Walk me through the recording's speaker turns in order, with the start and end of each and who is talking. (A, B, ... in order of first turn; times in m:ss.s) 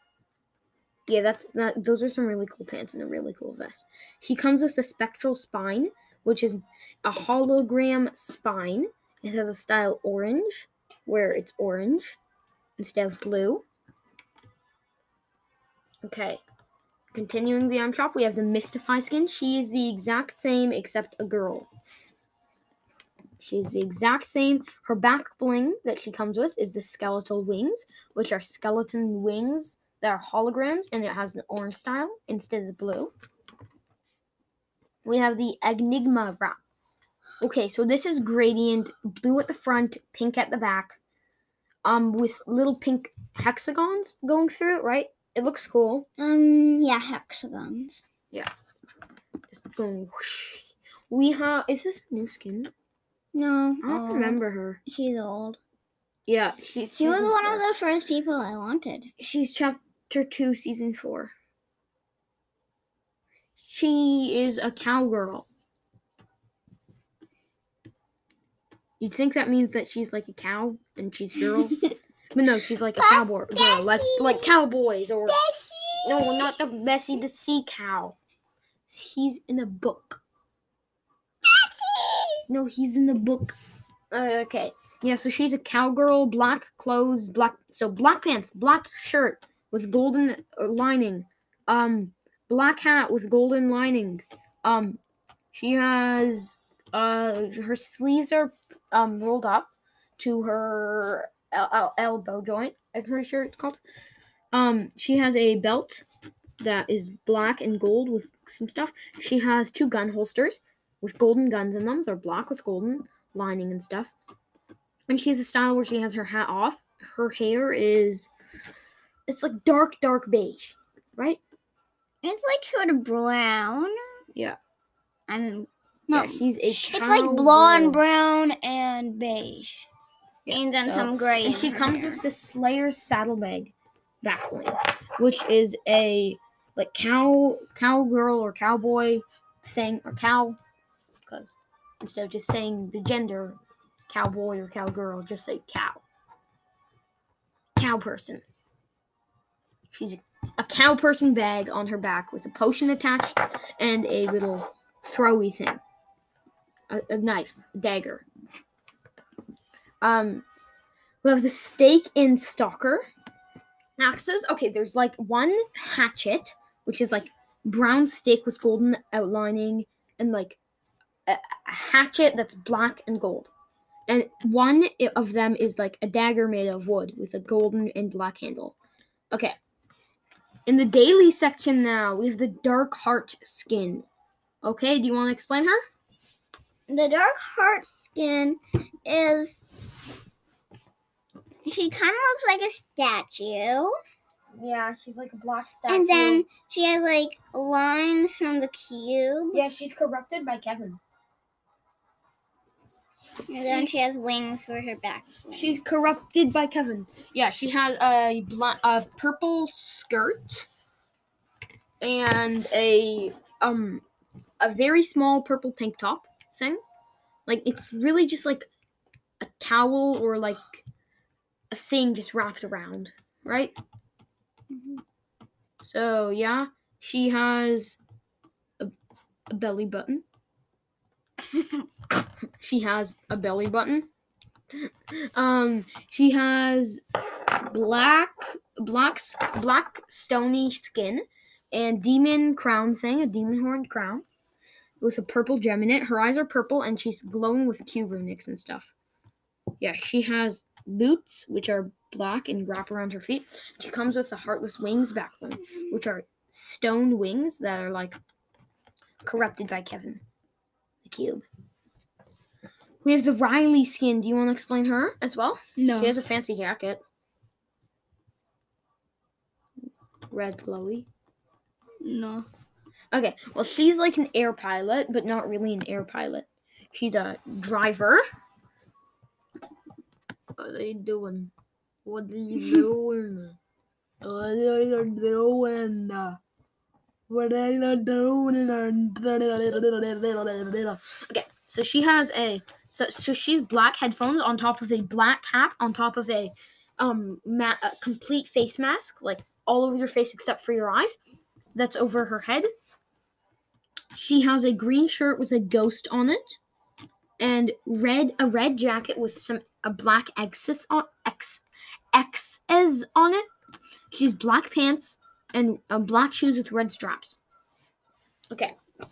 0:01.1-0:12.2 A
0:12.8-0:13.6 A
0:16.0-0:16.4 A
0:17.1-0:21.7 A
0:23.4-0:33.1 A
0:35.0-0:36.6 A
0:37.4-0:41.0 A
0:41.8-0:46.1 A
0:46.2-0:48.0 B
0:49.5-0:52.7 A
0:53.3-0:55.6 B
0:53.8-0:54.8 A
0:56.3-0:57.6 A
0:57.0-0:59.1 B
0:59.2-1:01.3 A
1:03.6-1:05.5 A
1:09.0-1:11.8 A
1:12.3-1:15.4 A
1:13.0-1:14.5 B
1:15.2-1:16.5 B
1:16.0-1:18.2 A
1:18.9-1:20.2 A
1:21.4-1:22.4 B
1:22.5-1:23.5 A
1:24.1-1:35.0 A
1:35.5-1:43.8 A
1:44.5-1:46.0 A
1:46.6-1:54.1 A
1:55.1-1:58.3 A
1:59.3-2:01.4 A
2:02.2-2:04.0 B
2:05.3-2:09.9 B
2:06.1-2:08.0 A
2:10.4-2:20.6 A
2:10.5-2:12.2 B
2:21.3-2:23.6 A
2:24.1-2:26.0 A
2:27.8-2:28.4 A
2:29.9-2:35.8 A
2:36.9-2:38.2 A
2:40.0-2:40.4 A
2:41.2-2:43.1 A
2:44.0-2:50.6 A
2:51.2-2:53.5 A
2:54.1-2:58.8 A
2:59.3-2:59.6 A
3:00.6-3:04.0 A
3:04.6-3:05.8 A
3:06.9-3:09.6 B
3:11.6-3:14.0 B
3:14.5-3:16.4 A
3:15.9-3:19.6 B
3:19.5-3:21.0 A
3:23.5-3:25.8 B
3:23.7-3:23.9 A
3:25.5-3:30.7 A
3:32.0-3:34.0 A
3:34.6-3:36.8 A
3:37.5-3:38.7 A
3:39.4-3:40.8 A
3:41.7-3:43.7 A
3:44.7-3:45.0 B
3:45.8-3:48.0 A
3:49.5-3:50.2 A
3:51.5-3:51.8 B
3:52.6-3:54.1 A
3:55.1-3:57.0 A
3:57.6-4:04.2 A
4:05.0-4:08.9 A
4:09.8-4:18.2 A
4:19.2-4:20.2 A
4:21.0-4:21.4 A
4:23.0-4:27.0 A
4:30.3-4:31.1 A
4:32.1-4:32.4 B
4:33.1-4:38.2 A
4:40.6-4:41.5 A
4:42.0-4:43.6 A
4:44.2-4:46.4 A
4:47.3-5:01.2 A
5:01.7-5:02.7 A
5:04.1-5:06.6 A
5:07.4-5:13.4 A
5:14.1-5:17.4 A